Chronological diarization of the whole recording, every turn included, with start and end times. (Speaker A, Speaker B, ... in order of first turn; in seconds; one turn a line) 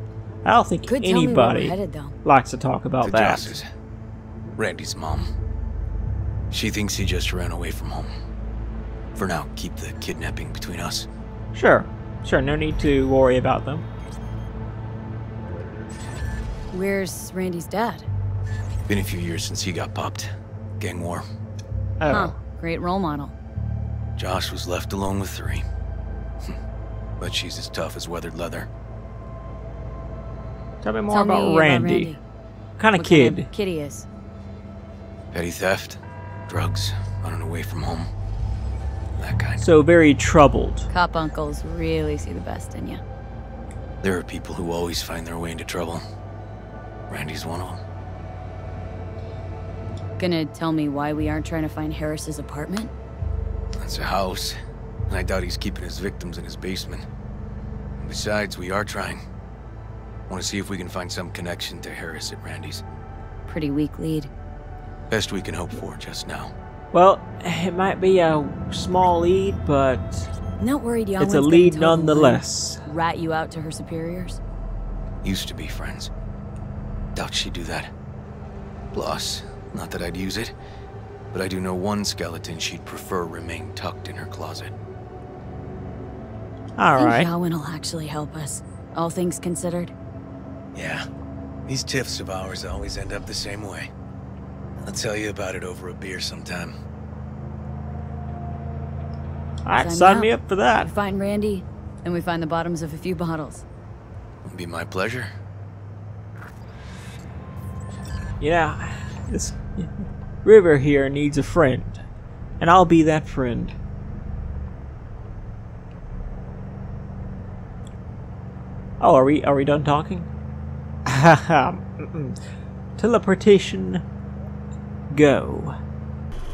Speaker A: 0.5-3.5
Speaker B: 0.8-2.2
Speaker C: 3.0-3.7
Speaker C: 4.6-5.3
Speaker C: 6.5-8.1
Speaker C: 9.2-11.1
Speaker A: 11.5-13.9
Speaker B: 16.7-18.1
Speaker C: 18.9-21.2
Speaker A: 22.0-22.4
Speaker B: 22.1-23.3
Speaker C: 24.2-25.6
Speaker C: 27.2-28.7
Speaker A: 30.8-32.1
Speaker B: 31.1-32.2
Speaker A: 32.8-33.5
Speaker B: 33.0-34.1
Speaker C: 35.3-38.1
Speaker C: 39.2-39.6
Speaker A: 39.6-40.9
Speaker B: 40.9-43.0
Speaker C: 44.0-46.0
Speaker C: 47.1-47.8
Speaker B: 50.2-52.9
Speaker C: 53.8-54.6
Speaker C: 55.1-57.1
Speaker C: 58.0-59.2
Speaker C: 60.3-62.8
Speaker B: 63.5-64.3
Speaker C: 65.1-66.5
Speaker A: 66.9-70.3
Speaker B: 70.6-74.4
Speaker A: 71.2-72.8
Speaker C: 75.2-76.1
Speaker C: 77.2-77.9
Speaker C: 78.9-80.5
Speaker C: 81.3-84.7
Speaker A: 86.8-87.3
Speaker B: 87.0-89.9
Speaker C: 90.8-91.1
Speaker C: 91.7-93.9
Speaker C: 94.8-96.8
Speaker A: 99.7-100.9
Speaker B: 99.8-103.7
Speaker C: 104.5-105.3
Speaker A: 108.4-109.9
Speaker A: 110.4-112.0
Speaker A: 112.6-113.7
Speaker A: 119.0-120.3
Speaker A: 121.0-122.4
Speaker A: 123.0-124.0
Speaker A: 125.1-125.8